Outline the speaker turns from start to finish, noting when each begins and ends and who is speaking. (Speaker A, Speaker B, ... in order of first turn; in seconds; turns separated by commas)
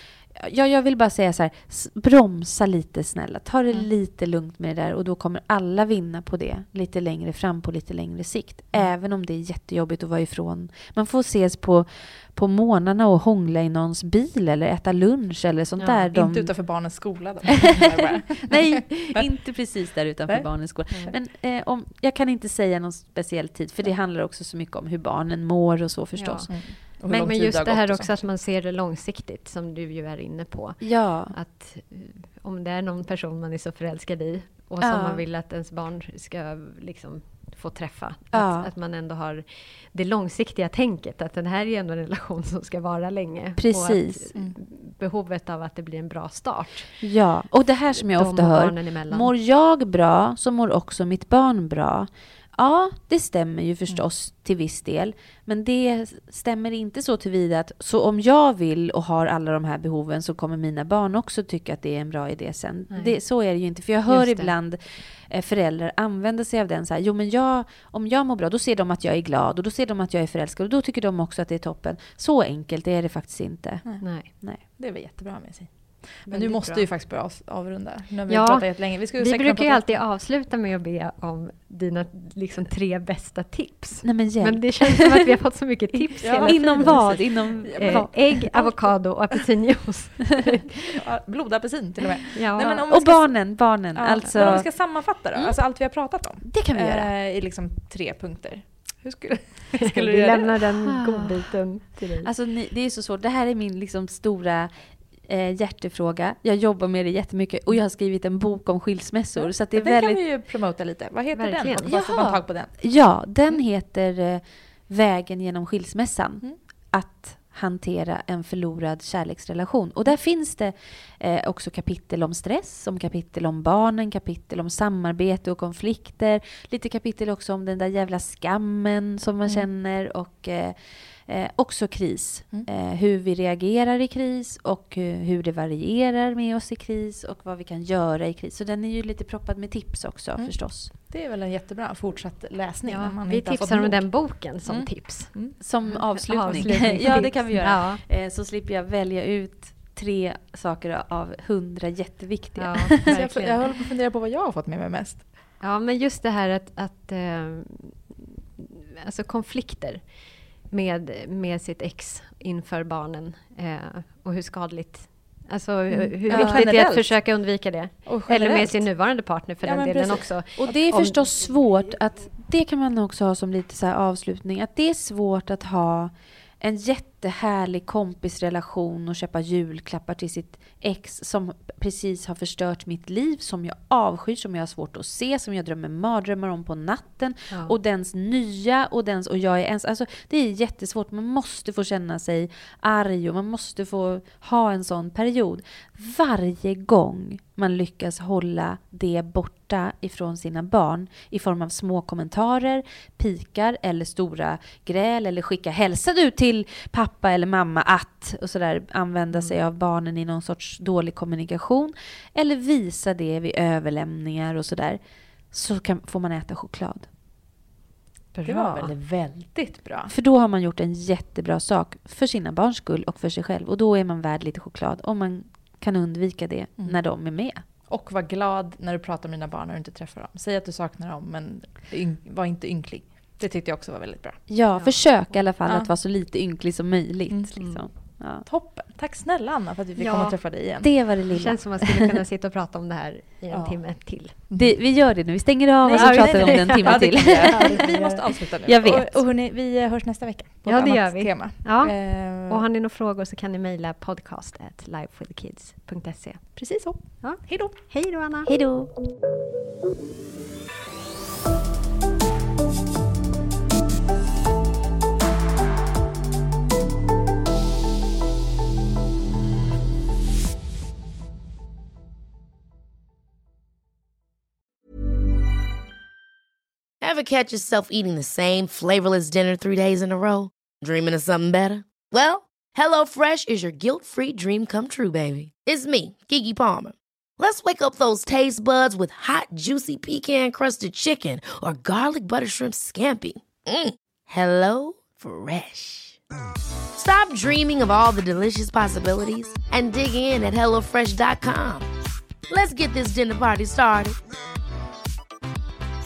Speaker A: 0.3-16.5, Speaker B: 15.8-16.1, Speaker C: 16.1-19.3, Speaker A: 17.7-26.5, Speaker C: 20.3-21.2, Speaker B: 26.1-26.5, Speaker C: 26.5-28.2, Speaker B: 27.1-47.0, Speaker A: 30.8-31.4, Speaker A: 34.8-35.2, Speaker A: 38.3-38.7, Speaker A: 43.6-44.3, Speaker A: 47.0-74.6, Speaker B: 48.0-49.3, Speaker B: 64.1-64.5, Speaker C: 73.8-79.9, Speaker B: 74.0-74.3, Speaker B: 76.3-76.9, Speaker B: 78.3-90.8, Speaker A: 84.0-85.2, Speaker C: 86.2-87.2, Speaker A: 86.4-88.4, Speaker C: 87.7-88.8, Speaker C: 90.9-93.4, Speaker B: 92.3-92.8, Speaker A: 92.6-95.6, Speaker C: 94.0-100.6, Speaker A: 96.4-97.1, Speaker B: 99.8-102.3, Speaker A: 100.9-101.5, Speaker A: 102.2-110.2, Speaker C: 109.4-112.8, Speaker B: 111.3-112.0, Speaker A: 111.8-140.9, Speaker C: 140.4-145.6, Speaker B: 142.9-148.0, Speaker A: 145.6-153.0, Speaker C: 146.5-147.3, Speaker B: 152.6-153.7, Speaker C: 153.1-155.3, Speaker B: 155.6-160.1, Speaker B: 160.7-171.2, Speaker C: 165.9-167.2, Speaker A: 166.3-166.7, Speaker C: 168.1-168.9, Speaker C: 169.6-170.8, Speaker A: 170.6-215.0, Speaker A: 215.5-217.1, Speaker B: 218.3-218.9, Speaker C: 218.4-220.1, Speaker A: 220.1-227.6, Speaker C: 227.9-234.4, Speaker A: 234.5-238.5, Speaker C: 235.7-235.9, Speaker C: 238.5-240.9, Speaker B: 240.0-240.4, Speaker A: 240.8-242.1, Speaker B: 241.3-244.3, Speaker C: 243.5-244.8, Speaker A: 244.5-248.0, Speaker C: 245.8-252.7, Speaker B: 245.9-248.2, Speaker A: 248.7-249.2, Speaker B: 250.7-256.6, Speaker C: 256.6-257.9, Speaker B: 257.2-258.5, Speaker A: 258.5-258.9, Speaker D: 277.0-296.2, Speaker D: 297.0-301.9, Speaker D: 302.5-304.2